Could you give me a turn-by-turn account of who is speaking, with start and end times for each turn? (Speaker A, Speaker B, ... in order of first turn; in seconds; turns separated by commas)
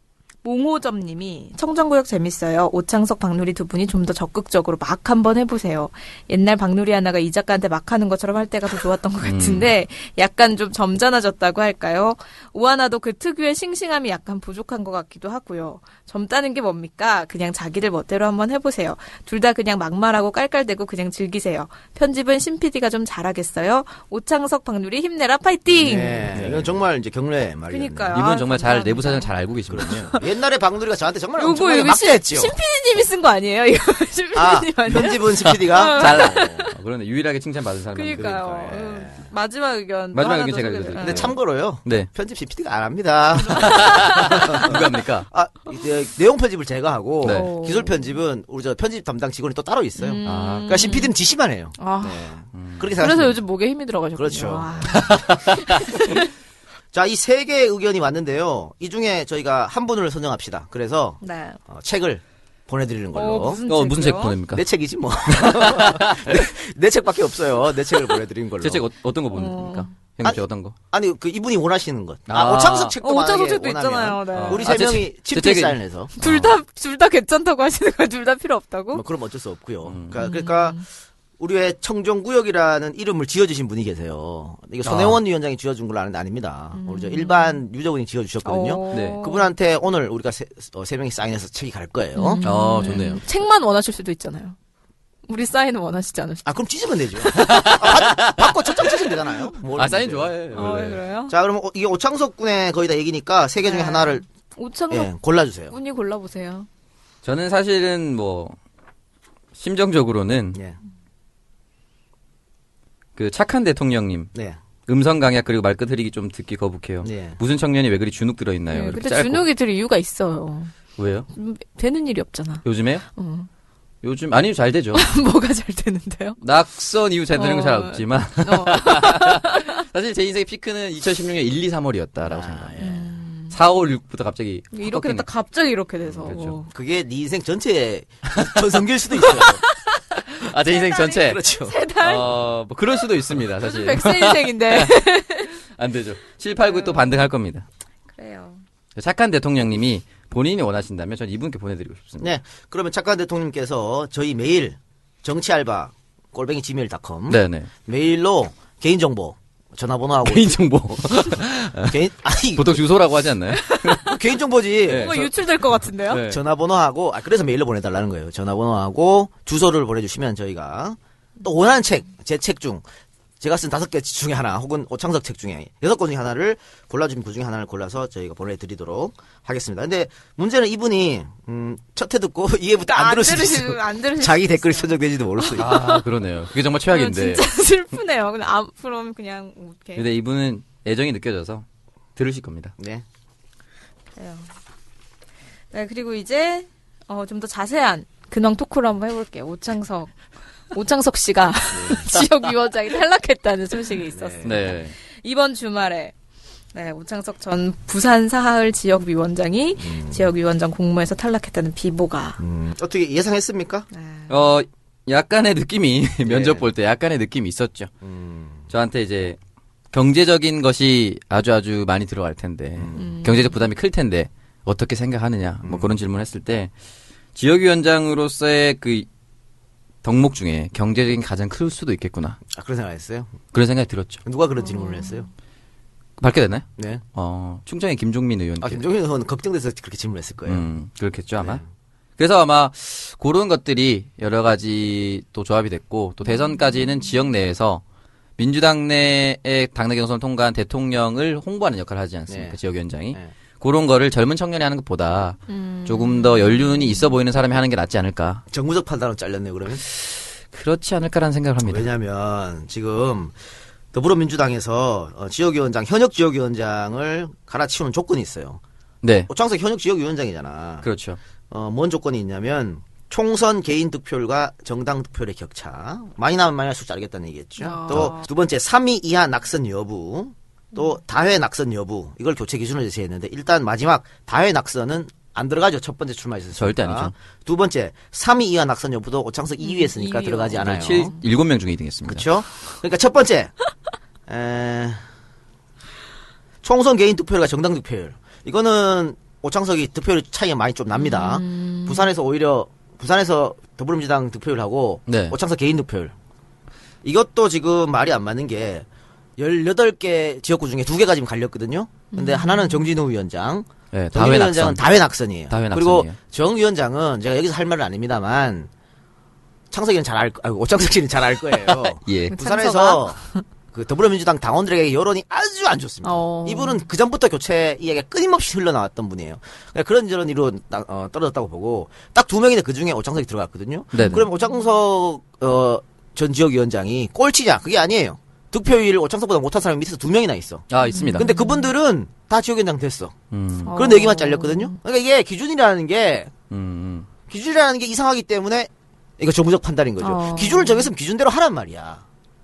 Speaker A: 0.4-26.3, Speaker B: 9.2-9.7, Speaker C: 25.7-28.2, Speaker B: 26.3-26.8, Speaker A: 27.7-29.3, Speaker B: 28.1-30.1, Speaker C: 29.7-32.5, Speaker A: 31.4-36.7, Speaker C: 34.3-36.7, Speaker B: 35.5-38.5, Speaker A: 37.9-41.4, Speaker C: 38.1-39.3, Speaker B: 40.1-42.1, Speaker C: 41.0-53.4, Speaker A: 43.4-44.7, Speaker B: 43.5-45.3, Speaker B: 47.2-47.5, Speaker A: 47.2-48.2, Speaker A: 50.0-51.1, Speaker B: 50.2-50.9, Speaker A: 51.8-52.3, Speaker B: 52.5-53.2, Speaker A: 53.0-56.2, Speaker C: 54.2-55.2, Speaker B: 54.9-56.0, Speaker C: 56.9-63.6, Speaker A: 61.2-61.6, Speaker A: 63.1-64.4, Speaker B: 63.7-64.7, Speaker C: 64.5-68.8, Speaker B: 65.3-66.4, Speaker B: 68.6-70.8, Speaker A: 69.3-69.9, Speaker C: 70.2-76.1, Speaker B: 72.3-72.9, Speaker A: 73.0-74.7, Speaker B: 74.3-76.6, Speaker A: 76.2-79.0, Speaker C: 78.9-80.8, Speaker B: 79.8-80.2, Speaker A: 80.2-80.8, Speaker C: 81.4-92.4, Speaker B: 84.8-85.2, Speaker A: 86.7-87.6, Speaker A: 88.4-89.5, Speaker B: 88.9-89.2, Speaker A: 92.2-94.6, Speaker B: 92.4-93.2, Speaker A: 95.3-96.5, Speaker C: 96.5-100.3, Speaker B: 97.3-99.0, Speaker B: 99.7-101.0, Speaker A: 100.5-101.3, Speaker C: 101.3-104.2, Speaker A: 103.6-105.1, Speaker C: 104.9-105.8, Speaker A: 105.7-106.7, Speaker B: 107.2-108.6, Speaker B: 109.5-110.6, Speaker B: 113.2-114.3, Speaker B: 114.9-119.5, Speaker C: 117.0-117.4, Speaker A: 118.7-120.7, Speaker B: 121.0-121.3, Speaker A: 121.3-123.5, Speaker B: 122.6-123.0, Speaker B: 124.0-125.1, Speaker A: 125.0-126.4, Speaker B: 126.4-132.8, Speaker A: 127.3-129.8, Speaker C: 132.3-133.1, Speaker A: 132.8-133.6, Speaker B: 133.5-135.3, Speaker A: 134.7-136.7, Speaker B: 136.2-136.6, Speaker C: 136.7-139.6, Speaker B: 138.3-138.7, Speaker A: 139.2-142.3, Speaker B: 140.3-141.4, Speaker C: 141.2-141.8, Speaker B: 142.0-145.0, Speaker A: 143.6-145.5, Speaker B: 145.7-147.7, Speaker A: 146.6-147.2, Speaker A: 148.2-148.6, Speaker B: 149.0-152.3, Speaker C: 152.2-161.0, Speaker B: 157.3-157.7, Speaker B: 160.2-162.0, Speaker C: 161.8-162.8, Speaker B: 162.6-164.1, Speaker A: 163.5-164.2, Speaker C: 164.0-165.3, Speaker B: 164.9-165.3, Speaker A: 164.9-166.2, Speaker B: 166.1-166.4, Speaker C: 166.2-172.8, Speaker C: 173.4-185.8, Speaker A: 182.9-186.0, Speaker B: 185.6-187.4, Speaker A: 186.9-190.1, Speaker B: 190.0-191.7, Speaker B: 192.2-192.7, Speaker C: 192.8-193.1, Speaker A: 194.2-194.5, Speaker A: 195.7-200.1, Speaker A: 200.7-206.1, Speaker C: 201.7-202.1, Speaker C: 204.1-204.8, Speaker B: 204.4-204.9, Speaker A: 206.7-212.4, Speaker C: 209.8-210.2, Speaker C: 212.4-213.9, Speaker A: 213.9-214.3, Speaker B: 214.3-217.9, Speaker C: 216.3-216.7, Speaker C: 218.0-218.7, Speaker B: 218.7-219.4, Speaker B: 219.9-226.7, Speaker C: 222.8-223.1, Speaker A: 222.9-223.6, Speaker C: 225.6-225.9, Speaker B: 227.3-229.1, Speaker B: 230.0-232.4, Speaker C: 232.5-233.3, Speaker B: 233.5-234.2, Speaker C: 234.3-235.3, Speaker A: 234.6-235.3, Speaker B: 236.2-238.8, Speaker C: 236.8-237.0, Speaker C: 238.6-240.7, Speaker B: 240.5-241.6, Speaker B: 242.2-247.8, Speaker A: 246.3-246.9, Speaker B: 248.4-258.4, Speaker C: 252.3-252.6, Speaker A: 255.5-257.1, Speaker C: 258.5-259.8, Speaker B: 259.9-261.9, Speaker C: 261.6-263.4, Speaker C: 263.9-268.6, Speaker B: 269.0-269.3, Speaker C: 269.3-270.9, Speaker B: 270.8-271.2, Speaker C: 271.5-291.1, Speaker A: 277.6-278.3, Speaker B: 286.6-287.1, Speaker A: 289.6-290.9, Speaker B: 290.6-292.3, Speaker C: 292.1-293.5, Speaker C: 294.3-295.0, Speaker C: 296.6-306.1, Speaker A: 300.9-302.1, Speaker B: 305.1-305.4, Speaker C: 307.0-308.9, Speaker C: 309.4-318.7, Speaker A: 312.1-312.9, Speaker B: 313.9-314.9, Speaker B: 315.5-316.2, Speaker C: 319.7-323.2, Speaker B: 322.0-322.4, Speaker A: 322.3-323.4, Speaker C: 323.7-343.1, Speaker A: 326.0-326.8, Speaker B: 333.9-334.2, Speaker A: 334.0-334.3, Speaker B: 340.7-341.3, Speaker A: 340.9-341.7, Speaker B: 343.3-343.8, Speaker A: 343.6-344.8, Speaker C: 343.7-346.3, Speaker B: 346.5-347.1, Speaker C: 347.3-352.0, Speaker A: 350.0-350.9